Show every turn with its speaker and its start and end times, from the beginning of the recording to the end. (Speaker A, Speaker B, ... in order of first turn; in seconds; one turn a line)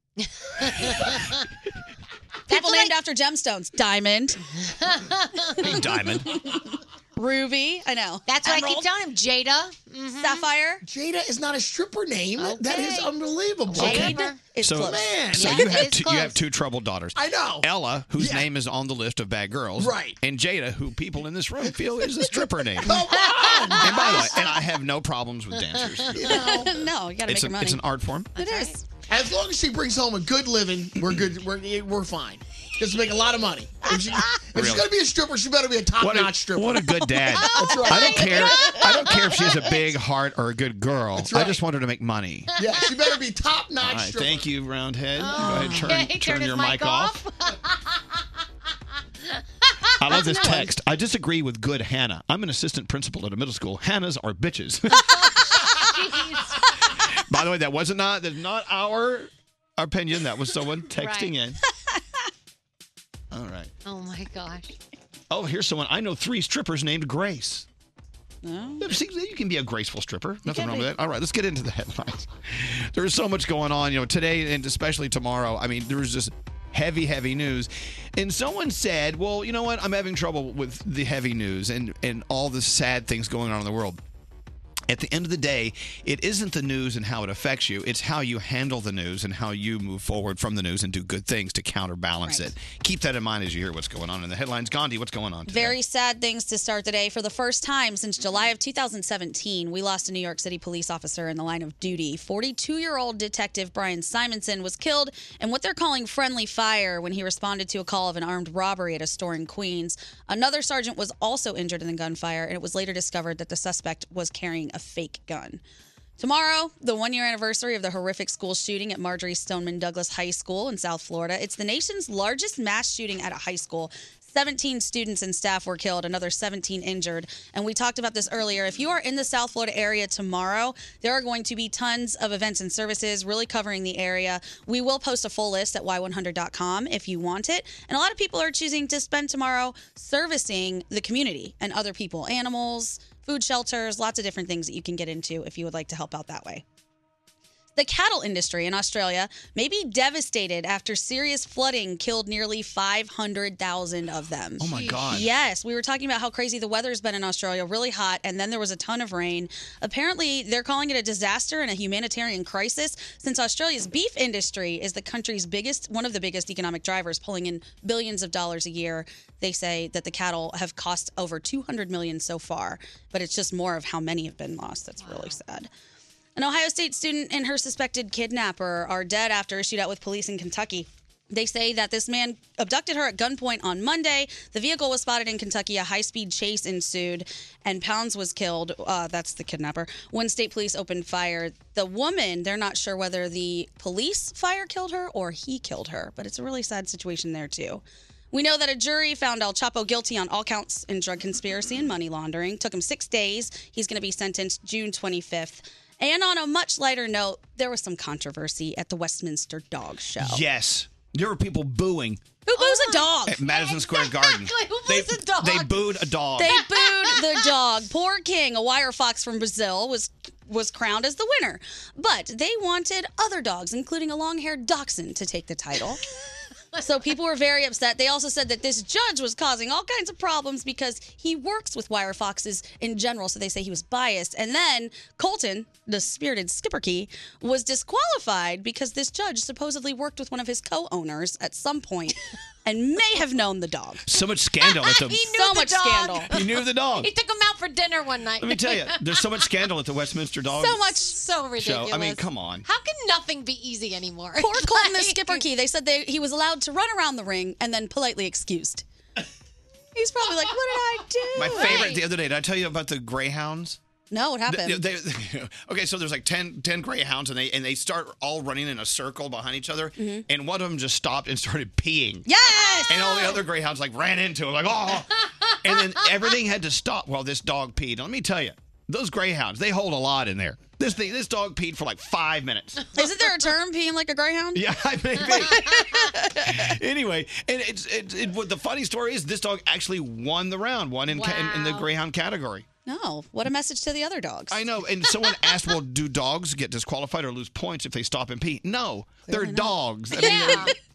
Speaker A: 0.2-1.4
Speaker A: 2.5-3.0
Speaker B: 2.5-4.4
Speaker A: 4.6-5.8
Speaker C: 5.6-6.4
Speaker B: 7.2-8.9
Speaker A: 8.3-10.5
Speaker B: 10.2-10.8
Speaker D: 10.8-14.2
Speaker A: 12.4-13.1
Speaker A: 13.7-14.4
Speaker B: 13.7-15.6
Speaker C: 14.6-26.4
Speaker D: 14.8-15.5
Speaker A: 15.3-16.4
Speaker D: 17.1-18.5
Speaker D: 19.8-20.2
Speaker D: 22.8-23.9
Speaker A: 23.3-24.2
Speaker D: 26.1-26.7
Speaker A: 26.2-26.6
Speaker B: 26.2-27.8
Speaker C: 27.3-28.3
Speaker A: 28.4-28.8
Speaker B: 28.4-28.8
Speaker D: 29.1-36.8
Speaker C: 34.5-34.9
Speaker C: 36.0-42.6
Speaker A: 37.1-39.8
Speaker D: 37.5-38.3
Speaker B: 38.0-39.1
Speaker D: 41.1-41.6
Speaker D: 42.5-44.4
Speaker A: 42.6-43.0
Speaker C: 43.8-47.2
Speaker A: 45.2-48.2
Speaker B: 45.4-45.9
Speaker A: 49.2-50.7
Speaker C: 50.0-55.7
Speaker A: 54.9-57.0
Speaker C: 56.9-61.6
Speaker A: 61.0-61.3
Speaker C: 63.3-63.7
Speaker A: 63.8-64.7
Speaker C: 65.3-67.7
Speaker B: 68.4-68.9
Speaker C: 68.8-84.0
Speaker B: 70.5-70.8
Speaker C: 84.9-95.8
Speaker B: 95.5-115.6
Speaker B: 116.2-146.6
Speaker B: 147.8-175.7
Speaker C: 154.6-155.3
Speaker A: 154.7-155.1
Speaker A: 175.0-175.4
Speaker B: 176.3-210.4
Speaker C: 210.2-212.2
Speaker B: 212.4-213.4
Speaker A: 212.5-217.5
Speaker C: 213.3-216.6
Speaker B: 216.4-226.0
Speaker B: 226.8-244.1
Speaker C: 244.1-245.3
Speaker A: 244.6-249.5
Speaker B: 245.3-246.3
Speaker C: 246.3-247.1
Speaker C: 248.4-250.9
Speaker A: 250.6-255.4
Speaker B: 250.6-251.1
Speaker C: 251.6-252.7
Speaker B: 254.4-258.8
Speaker B: 259.9-261.9
Speaker C: 261.3-263.8
Speaker A: 261.4-262.0
Speaker B: 264.1-264.9
Speaker C: 264.4-272.3
Speaker B: 270.0-270.2
Speaker B: 272.3-273.4
Speaker C: 272.9-282.9
Speaker B: 282.9-284.6
Speaker C: 284.5-292.7
Speaker B: 285.3-286.7
Speaker A: 291.1-291.9
Speaker B: 292.9-295.2
Speaker C: 294.5-300.7
Speaker B: 299.3-300.7
Speaker A: 300.2-300.8